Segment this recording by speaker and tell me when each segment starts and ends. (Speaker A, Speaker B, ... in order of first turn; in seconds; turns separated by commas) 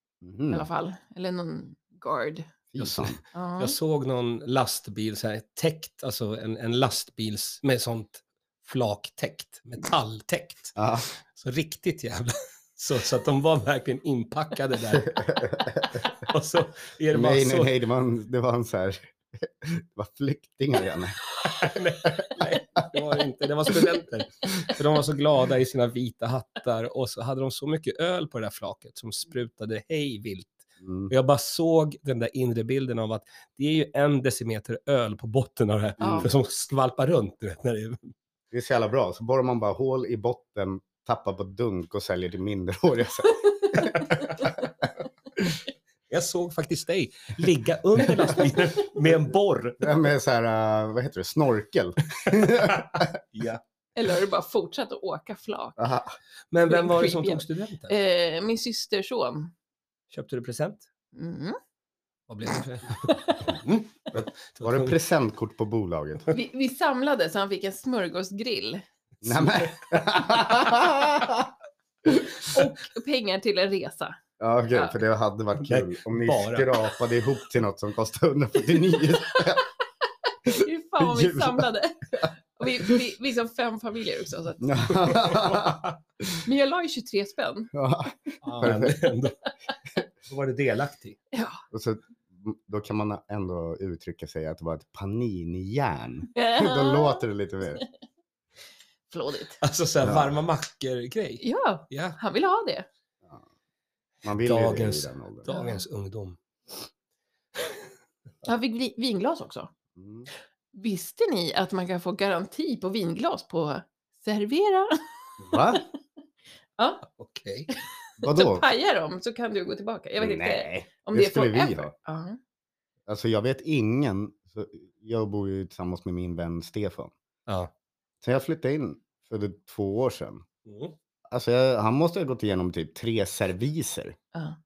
Speaker A: 0.2-0.7, Speaker B: 0.5-2.5, Speaker A: 2.7-3.2, Speaker C: 2.8-10.8, Speaker B: 3.3-3.8, Speaker A: 10.8-11.1, Speaker C: 11.3-15.2, Speaker A: 15.0-16.0, Speaker C: 16.1-17.7, Speaker A: 17.1-21.2, Speaker C: 21.5-38.1, Speaker A: 30.8-31.1, Speaker B: 36.0-36.3, Speaker A: 36.0-36.3, Speaker A: 38.5-44.6, Speaker C: 46.1-50.0, Speaker A: 49.8-53.2, Speaker C: 52.3-53.6, Speaker B: 54.0-55.8, Speaker A: 55.8-56.2, Speaker C: 56.5-58.0, Speaker B: 56.7-59.5, Speaker C: 60.1-60.8, Speaker B: 61.1-61.6, Speaker C: 62.3-65.0, Speaker B: 63.0-63.6, Speaker A: 64.1-66.3, Speaker B: 66.3-68.8, Speaker A: 69.2-71.5, Speaker C: 69.3-69.7, Speaker B: 72.4-74.2, Speaker A: 74.4-79.7, Speaker B: 74.7-75.0, Speaker C: 75.6-76.8, Speaker B: 79.1-85.1, Speaker A: 80.5-81.7, Speaker A: 82.2-83.0, Speaker A: 84.6-85.8, Speaker C: 85.1-86.0, Speaker B: 86.4-87.7, Speaker A: 87.7-89.0, Speaker C: 88.4-89.4, Speaker C: 90.3-91.2, Speaker B: 91.3-91.6, Speaker A: 91.7-97.8, Speaker B: 96.3-97.3, Speaker B: 99.1-99.6, Speaker C: 99.6-102.2, Speaker A: 100.0-100.4, Speaker B: 101.4-102.9, Speaker A: 104.2-105.5, Speaker C: 104.4-106.4, Speaker B: 105.5-105.8, Speaker B: 108.4-109.7, Speaker A: 110.0-110.3, Speaker B: 110.7-115.8, Speaker A: 115.4-115.8, Speaker B: 116.8-117.0, Speaker C: 117.1-117.7, Speaker B: 117.7-122.4, Speaker A: 118.2-118.7, Speaker A: 120.2-121.9, Speaker A: 123.1-127.1, Speaker A: 128.2-130.4, Speaker C: 130.7-131.0, Speaker A: 131.3-134.2